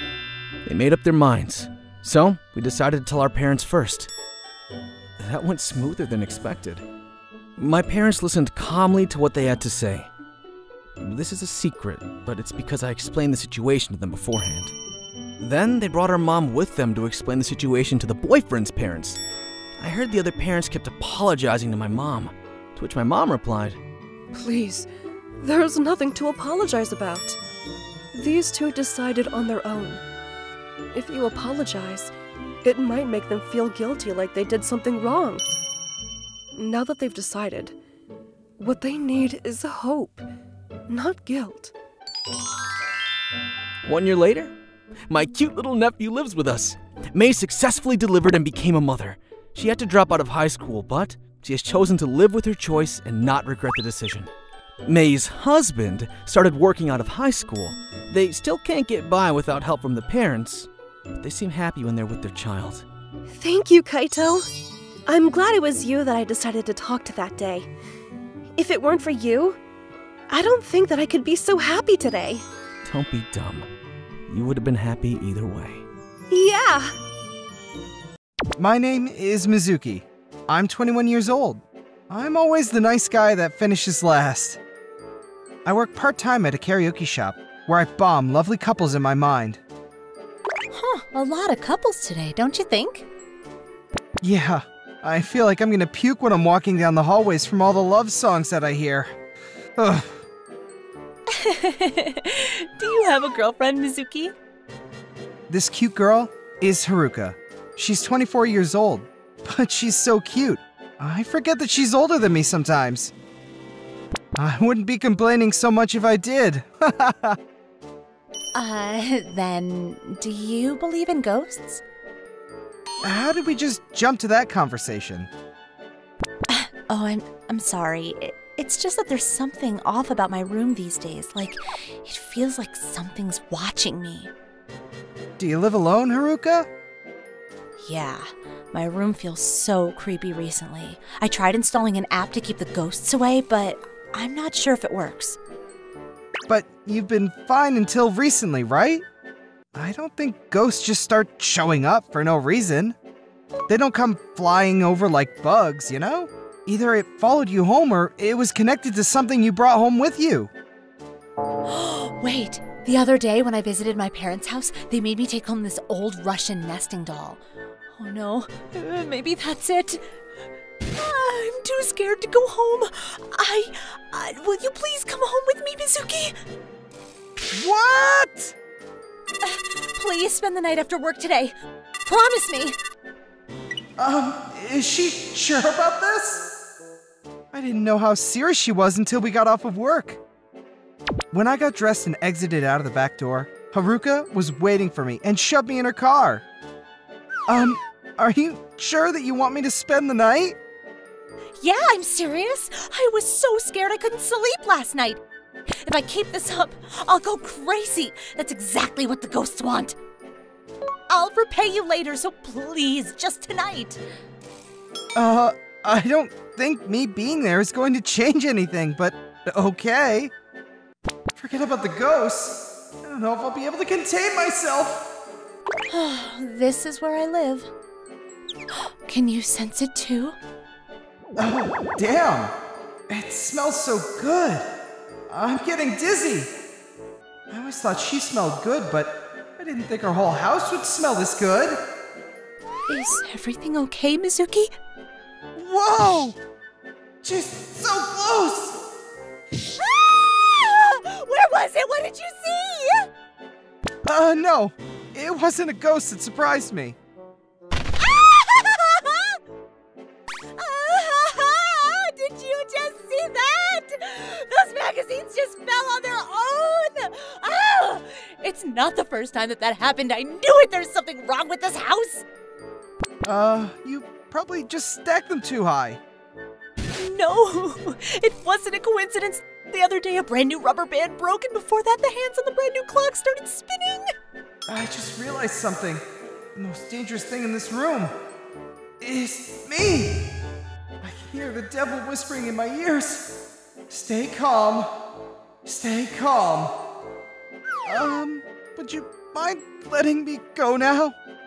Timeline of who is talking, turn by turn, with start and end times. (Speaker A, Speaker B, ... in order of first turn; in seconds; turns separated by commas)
Speaker A: 0.7-4.1, Speaker A: 5.2-6.8, Speaker A: 7.6-10.1, Speaker A: 11.0-14.8, Speaker A: 15.4-19.2, Speaker A: 19.8-23.8, Speaker B: 24.3-24.9, Speaker B: 25.4-27.4, Speaker B: 28.1-30.0, Speaker B: 30.9-32.1, Speaker B: 32.6-35.4, Speaker B: 36.6-37.8, Speaker B: 38.6-40.2, Speaker B: 40.9-41.7, Speaker A: 43.9-44.5, Speaker A: 45.1-54.3, Speaker A: 54.9-62.9, Speaker B: 63.3-64.5, Speaker B: 65.1-67.7, Speaker B: 68.6-69.6, Speaker B: 70.3-72.4, Speaker A: 72.8-73.7, Speaker A: 74.3-75.8, Speaker B: 76.3-76.9, Speaker C: 78.6-84.6, Speaker C: 85.7-89.6, Speaker D: 90.7-93.1, Speaker C: 94.2-99.1, Speaker C: 99.8-100.2, Speaker D: 101.3-104.3, Speaker C: 105.5-113.1, Speaker C: 114.4-117.4, Speaker D: 118.5-121.8, Speaker C: 123.0-125.3, Speaker D: 126.5-134.3, Speaker C: 135.4-136.7, Speaker D: 137.8-145.4, Speaker C: 146.5-149.1, Speaker C: 149.7-153.0, Speaker C: 153.7-160.5, Speaker D: 161.7-167.4, Speaker D: 167.9-170.0, Speaker D: 170.8-176.4, Speaker C: 177.5-178.6, Speaker D: 179.4-181.6, Speaker D: 182.1-182.8, Speaker C: 184.0-186.6, Speaker C: 187.5-190.2, Speaker C: 191.3-196.4, Speaker C: 197.5-200.6, Speaker D: 201.6-210.0, Speaker D: 211.1-214.0, Speaker C: 215.2-220.3, Speaker C: 221.4-225.1, Speaker D: 225.9-227.7, Speaker D: 228.7-230.4, Speaker C: 231.4-232.5, Speaker C: 233.1-234.7, Speaker C: 235.3-236.5, Speaker C: 237.5-241.8, Speaker D: 242.9-244.7, Speaker C: 245.6-246.4, Speaker C: 247.2-248.8, Speaker D: 249.6-253.1, Speaker C: 254.1-257.0, Speaker D: 258.0-259.4, Speaker D: 260.6-272.2, Speaker C: 273.2-276.0, Speaker D: 276.9-284.1, Speaker C: 284.7-286.0, Speaker C: 286.6-288.1, Speaker C: 289.0-290.4, Speaker C: 291.0-295.0, Speaker C: 295.6-296.8, Speaker C: 297.9-301.1